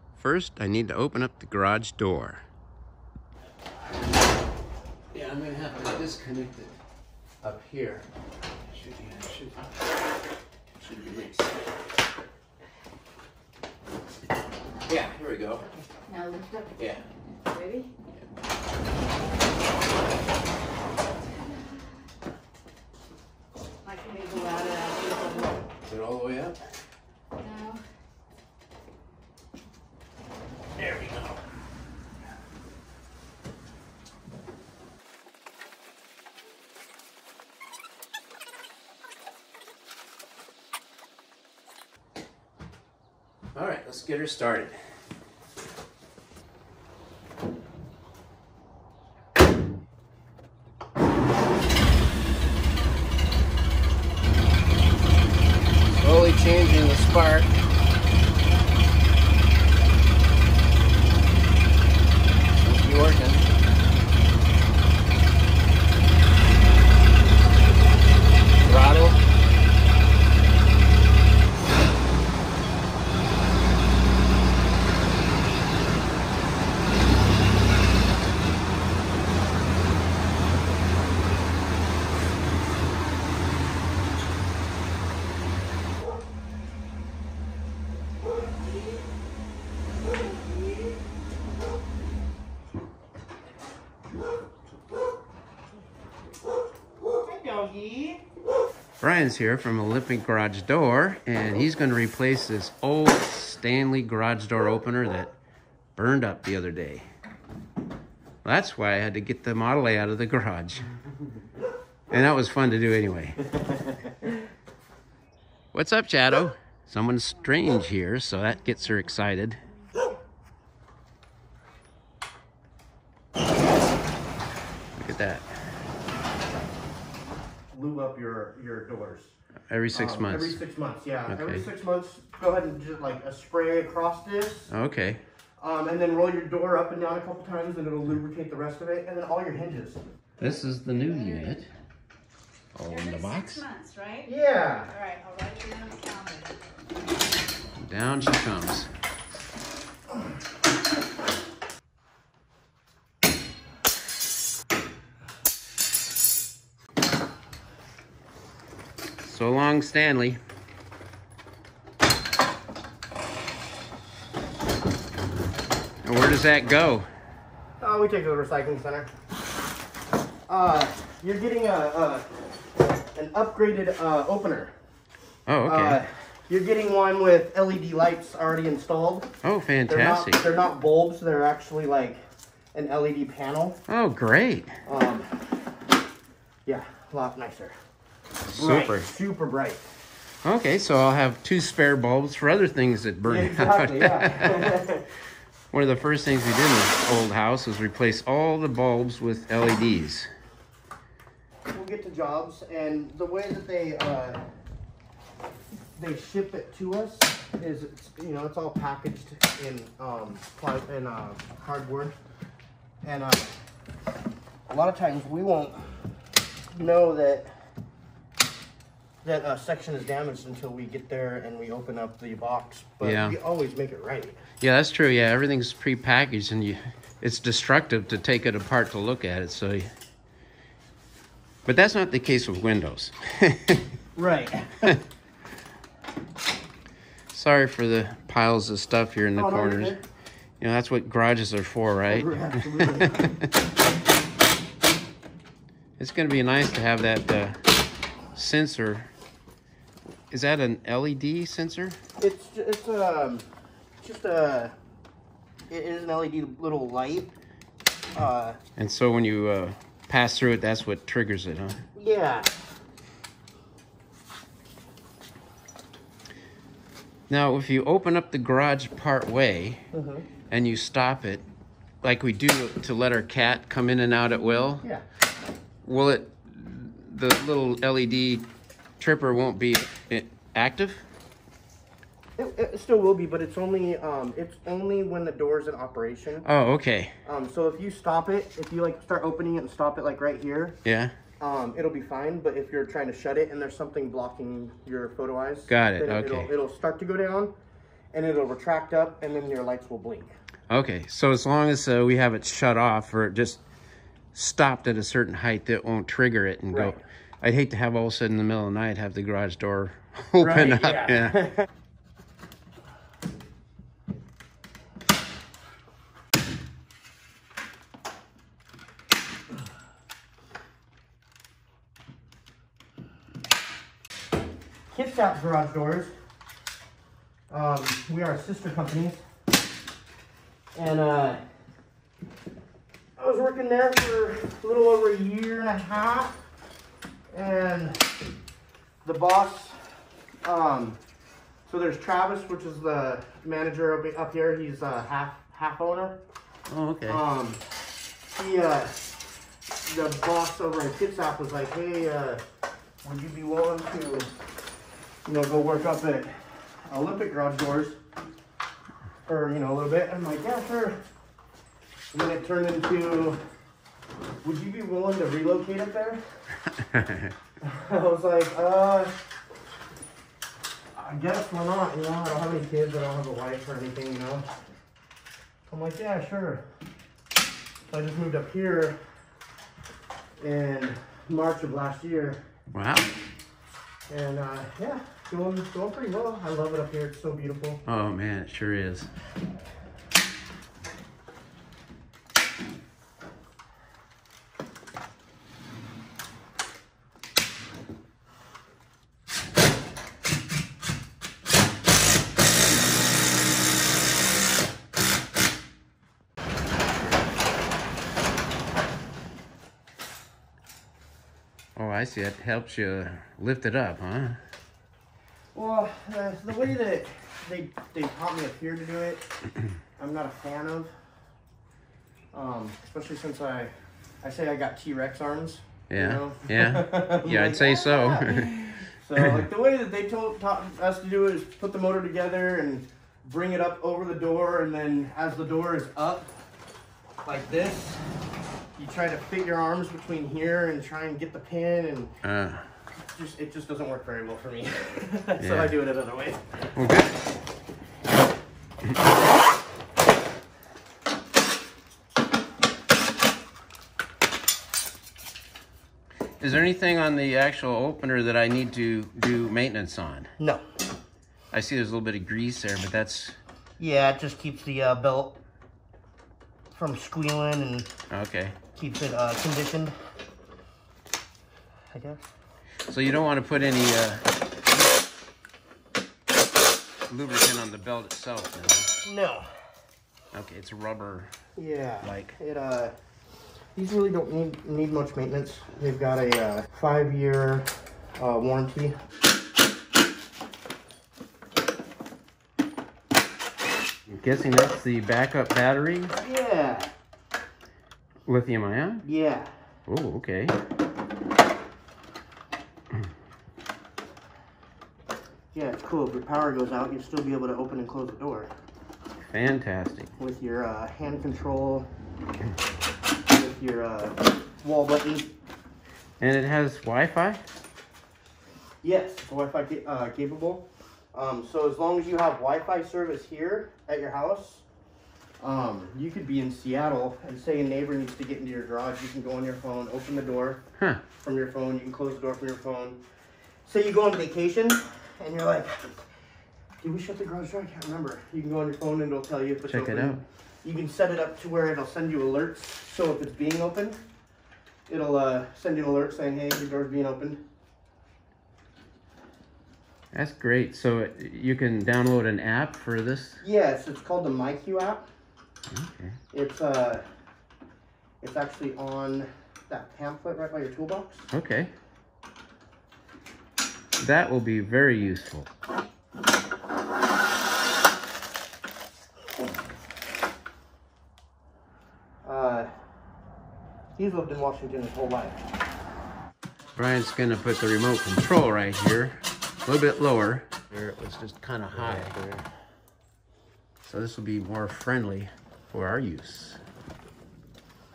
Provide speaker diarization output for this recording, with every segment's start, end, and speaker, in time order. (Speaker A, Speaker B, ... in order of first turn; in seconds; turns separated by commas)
Speaker A: 0.2-2.4, Speaker A: 5.1-6.7, Speaker A: 7.4-8.1, Speaker A: 8.7-9.7, Speaker A: 10.8-11.6, Speaker A: 14.9-15.7, Speaker B: 15.9-16.8, Speaker A: 16.8-17.0, Speaker B: 17.4-17.9, Speaker B: 23.8-25.6, Speaker A: 25.9-26.6, Speaker B: 27.4-27.8, Speaker A: 30.8-31.4, Speaker A: 43.5-44.8, Speaker A: 56.0-57.5, Speaker A: 62.6-63.5, Speaker A: 68.7-69.2, Speaker C: 97.2-98.2, Speaker A: 99.0-105.4, Speaker A: 106.0-107.1, Speaker A: 108.4-110.9, Speaker A: 112.1-113.5, Speaker A: 115.7-119.6, Speaker A: 125.0-125.5, Speaker C: 127.7-129.4, Speaker A: 129.7-130.6, Speaker C: 129.9-134.7, Speaker A: 131.3-131.7, Speaker A: 134.7-135.2, Speaker C: 135.6-140.0, Speaker A: 140.4-141.7, Speaker B: 140.9-141.6, Speaker A: 142.8-143.6, Speaker B: 142.8-144.3, Speaker C: 144.2-144.9, Speaker B: 144.9-146.5, Speaker A: 147.8-148.9, Speaker A: 159.2-160.4, Speaker A: 166.0-167.1, Speaker C: 167.8-169.1, Speaker C: 170.5-172.3, Speaker C: 173.1-174.7, Speaker A: 175.5-176.0, Speaker C: 175.7-179.3, Speaker A: 179.4-180.4, Speaker C: 179.9-182.2, Speaker C: 182.7-183.8, Speaker A: 183.9-184.8, Speaker C: 184.8-185.7, Speaker C: 186.7-187.8, Speaker A: 188.5-189.1, Speaker C: 188.5-189.8, Speaker A: 190.4-194.8, Speaker C: 193.2-195.1, Speaker A: 195.7-200.3, Speaker C: 201.7-204.4, Speaker C: 206.0-212.2, Speaker C: 213.0-213.5, Speaker C: 214.7-216.1, Speaker C: 216.7-217.6, Speaker C: 219.2-224.4, Speaker A: 223.0-223.4, Speaker A: 224.6-229.9, Speaker A: 231.7-233.9, Speaker C: 234.2-235.0, Speaker A: 237.3-240.0, Speaker C: 239.4-240.0, Speaker A: 240.6-243.5, Speaker C: 242.1-243.3, Speaker A: 246.0-247.6, Speaker A: 248.3-249.1, Speaker A: 250.3-252.0, Speaker C: 252.2-253.5, Speaker C: 254.0-254.8, Speaker C: 255.7-257.3, Speaker C: 258.1-258.6, Speaker A: 258.8-261.8, Speaker C: 261.9-262.5, Speaker A: 267.3-269.9, Speaker C: 269.9-270.3, Speaker A: 270.5-271.4, Speaker A: 272.0-274.9, Speaker A: 275.9-281.1, Speaker C: 282.4-286.5, Speaker A: 286.4-287.1, Speaker C: 287.2-290.8, Speaker A: 290.9-291.1, Speaker C: 291.4-297.5, Speaker A: 295.7-296.5, Speaker C: 298.1-300.3, Speaker A: 300.7-303.6, Speaker A: 304.3-311.5, Speaker C: 306.7-307.0, Speaker C: 310.4-311.6, Speaker C: 324.9-326.1, Speaker C: 327.5-329.2, Speaker C: 330.8-331.4, Speaker C: 333.2-336.4, Speaker C: 337.3-338.1, Speaker C: 339.0-341.0, Speaker C: 341.7-346.2, Speaker A: 346.7-347.2, Speaker C: 347.1-347.6, Speaker C: 348.3-349.2, Speaker C: 349.9-352.4, Speaker C: 353.0-354.3, Speaker C: 355.2-358.0, Speaker C: 359.3-361.0, Speaker C: 362.1-363.4, Speaker C: 364.4-366.2, Speaker A: 366.7-367.4, Speaker C: 367.6-369.1, Speaker C: 370.9-374.5, Speaker C: 375.7-376.7, Speaker C: 377.9-379.0, Speaker C: 380.4-382.4, Speaker A: 382.7-383.1, Speaker C: 384.1-387.8, Speaker A: 387.9-389.1, Speaker A: 411.8-414.4, Speaker C: 415.6-419.3, Speaker C: 420.0-420.9, Speaker C: 422.3-436.3, Speaker A: 425.9-429.4, Speaker C: 437.2-438.1, Speaker C: 438.8-442.2, Speaker A: 442.2-442.7, Speaker C: 443.0-446.5, Speaker A: 445.4-445.7, Speaker A: 446.8-447.2, Speaker A: 456.4-460.3, Speaker C: 460.4-460.6, Speaker A: 461.5-463.4, Speaker C: 463.8-465.4, Speaker C: 466.7-467.9, Speaker A: 468.1-468.6, Speaker C: 468.8-469.9, Speaker C: 471.9-472.3, Speaker A: 472.9-474.3, Speaker A: 477.1-478.9, Speaker C: 479.0-479.5, Speaker A: 480.3-481.3, Speaker C: 481.6-482.9, Speaker A: 482.0-482.4, Speaker C: 483.8-489.0, Speaker A: 494.1-496.1, Speaker C: 496.2-496.9, Speaker A: 498.3-499.1, Speaker C: 499.0-499.5, Speaker A: 499.9-500.6, Speaker C: 505.5-508.5, Speaker A: 509.3-510.1, Speaker C: 510.2-511.9, Speaker C: 513.3-515.3, Speaker A: 516.2-517.4, Speaker C: 518.8-524.6, Speaker C: 525.4-530.6, Speaker A: 530.8-531.0, Speaker C: 531.2-533.0, Speaker C: 533.6-536.1, Speaker C: 536.8-544.0, Speaker A: 539.7-540.2, Speaker C: 544.9-547.4, Speaker A: 550.1-553.4, Speaker C: 553.4-555.1, Speaker A: 555.7-556.2, Speaker C: 556.3-557.0, Speaker C: 558.2-561.3, Speaker A: 561.3-561.7, Speaker A: 564.0-565.5, Speaker C: 572.2-572.7, Speaker C: 574.0-575.5, Speaker A: 576.8-582.2, Speaker C: 581.7-582.5, Speaker A: 583.9-586.6